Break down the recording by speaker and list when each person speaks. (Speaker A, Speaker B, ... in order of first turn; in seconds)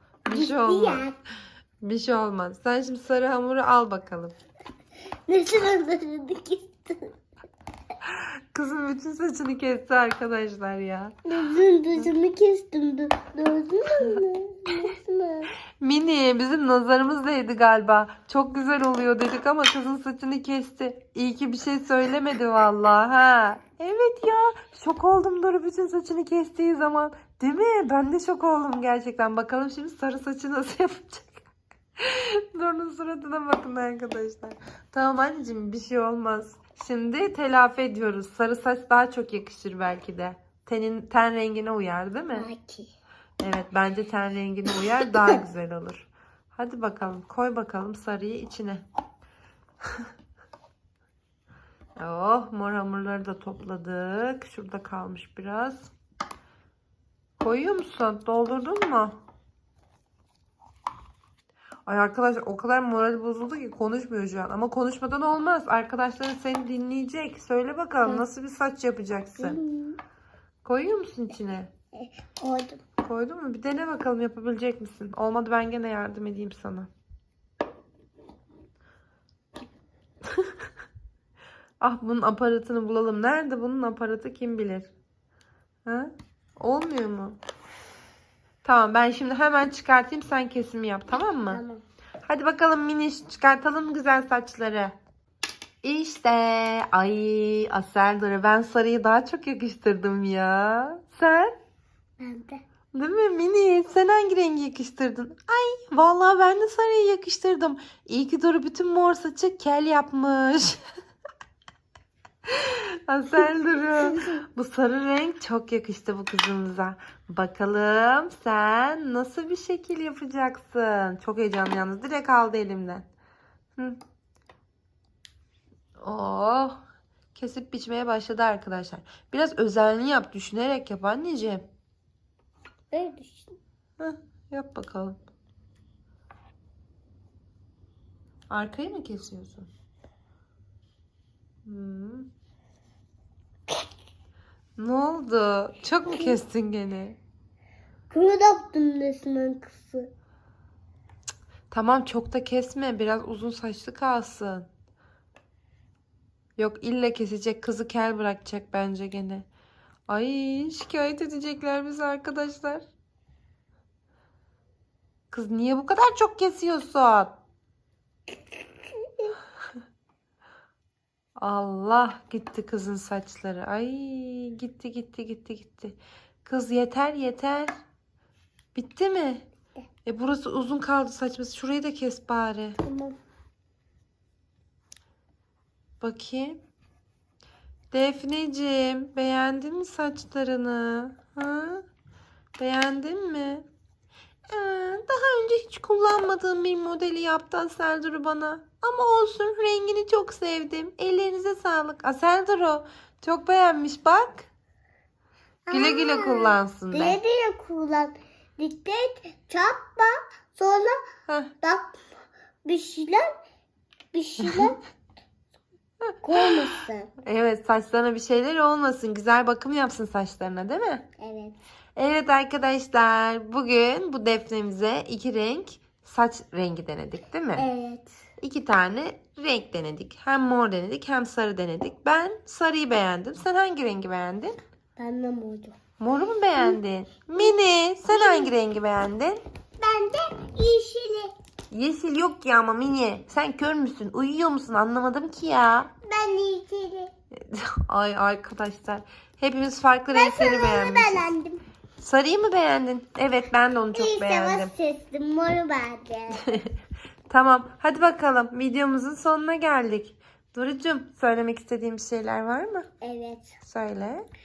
Speaker A: 0.2-1.1, 1.8-4.3, 8.0-11.2, 15.8-31.4, 32.0-42.5, 43.4-48.8, 52.0-55.9, 57.4-59.1, 61.9-69.6, 70.6-71.7, 73.0-76.9, 81.8-84.9, 85.8-87.4, 88.6-91.6, 92.2-94.9, 95.8-101.5, 102.9-110.8, 112.5-123.1, 126.0-126.8, 127.3-131.6, 134.0-135.2, 138.5-139.7, 141.7-142.3, 144.8-147.2, 151.7-154.7, 156.6-159.4, 160.1-162.8, 165.3-167.4, 171.4-177.7, 178.7-179.4, 180.1-182.8, 186.0-186.6, 187.9-191.8, 192.6-193.7, 194.5-204.5, 205.7-207.2, 217.2-221.1, 221.9-227.7, 228.4-234.6, 236.0-239.4, 241.7-245.9, 247.3-251.3, 252.0-254.7, 257.3-262.9, 263.6-264.2
Speaker B: 0.3-1.1, 5.3-7.1, 11.2-15.5, 42.3-42.9, 69.4-70.0, 71.9-72.8, 91.2-91.8, 102.2-102.6, 113.9-114.3, 132.9-133.5, 146.1-146.4, 148.1-150.1, 168.9-169.3, 182.8-183.2, 205.7-211.0, 211.6-212.1, 212.6-213.3, 214.1-214.8, 216.2-217.1, 221.2-221.6, 227.6-228.2, 235.0-235.8, 238.1-238.5, 239.8-241.3, 246.0-247.1, 250.1-251.6, 253.9-256.6, 263.0-263.5